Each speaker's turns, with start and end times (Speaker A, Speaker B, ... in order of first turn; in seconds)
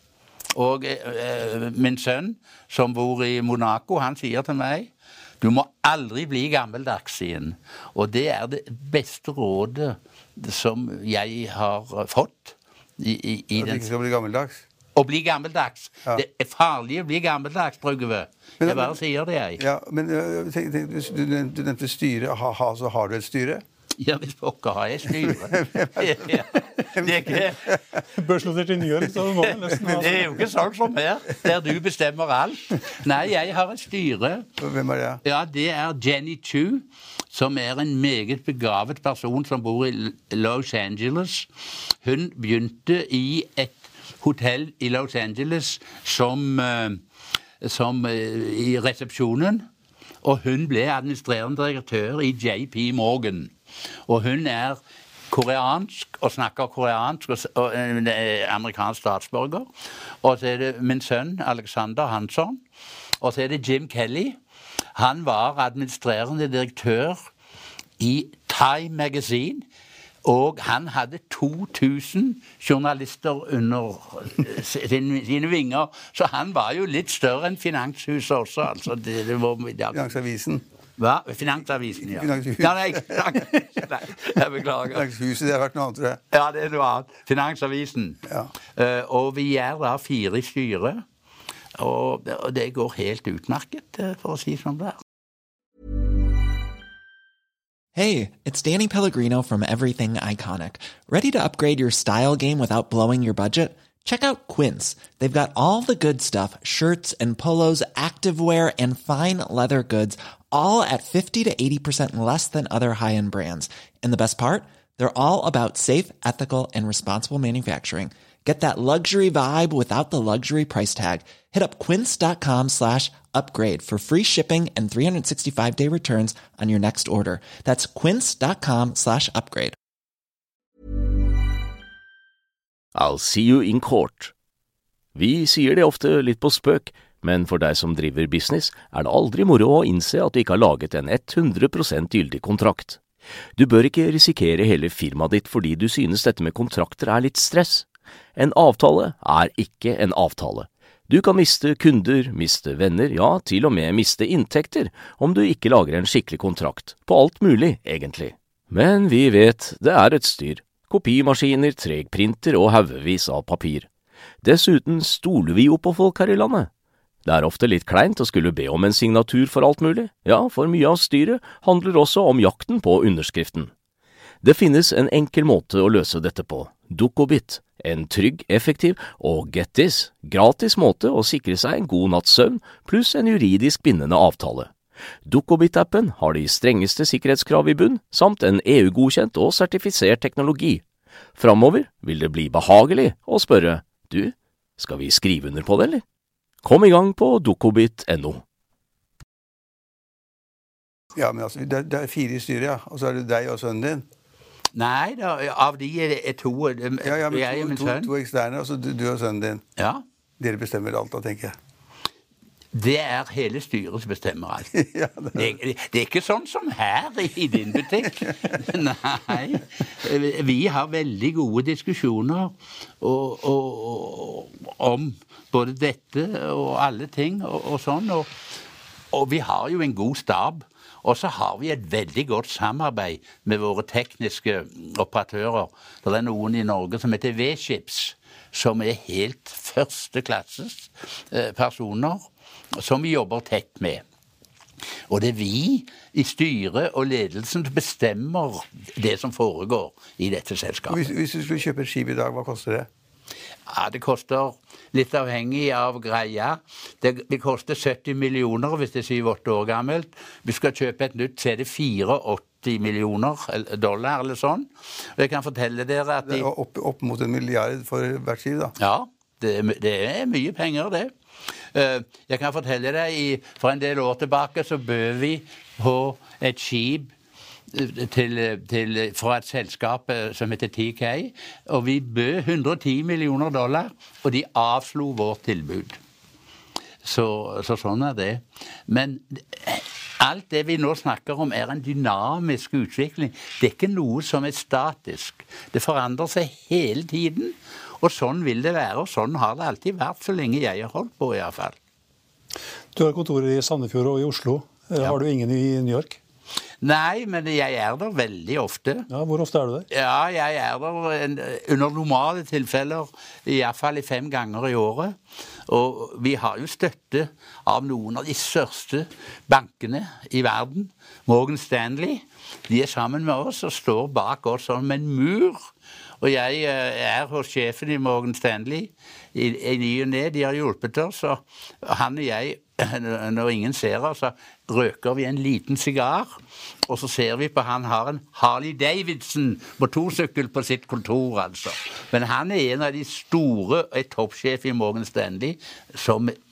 Speaker A: 0.5-4.9, 5.4-13.9, 14.9-19.6, 24.0-27.7, 29.5-34.4, 35.2-41.5, 42.0-47.0, 47.6-49.6, 50.2-53.5, 54.1-54.8, 55.3-59.7, 60.2-62.6, 63.2-64.4, 64.9-67.2, 68.0-69.6, 70.2-80.0, 81.0-85.0, 86.3-88.2, 88.7-91.0, 91.8-95.0, 204.7-208.1, 209.8-210.0, 212.7-214.7, 215.3-228.3, 229.1-244.0, 245.1-251.1, 253.7-266.5, 268.8-271.1, 271.7-277.1, 277.7-286.0, 287.0-301.8, 306.8-309.1, 309.9-315.1, 315.7-325.6, 326.2-346.4
Speaker B: 13.6-14.6, 18.6-18.9, 19.6-23.6, 25.2-26.4, 26.9-28.0, 29.7-30.3, 34.6-35.2, 79.9-80.6, 82.1-83.4, 84.9-86.2, 201.1-204.0, 207.0-209.6, 210.4-211.5, 214.7-215.5, 250.9-252.9, 266.2-268.7
Speaker C: 28.1-30.4, 302.9-306.2, 309.1-309.9
Speaker D: 97.9-129.8
Speaker E: 132.9-134.3, 135.1-143.0, 143.6-163.9, 164.4-166.7, 167.2-173.7, 174.4-184.7, 185.2-190.8, 191.4-196.0, 196.6-198.4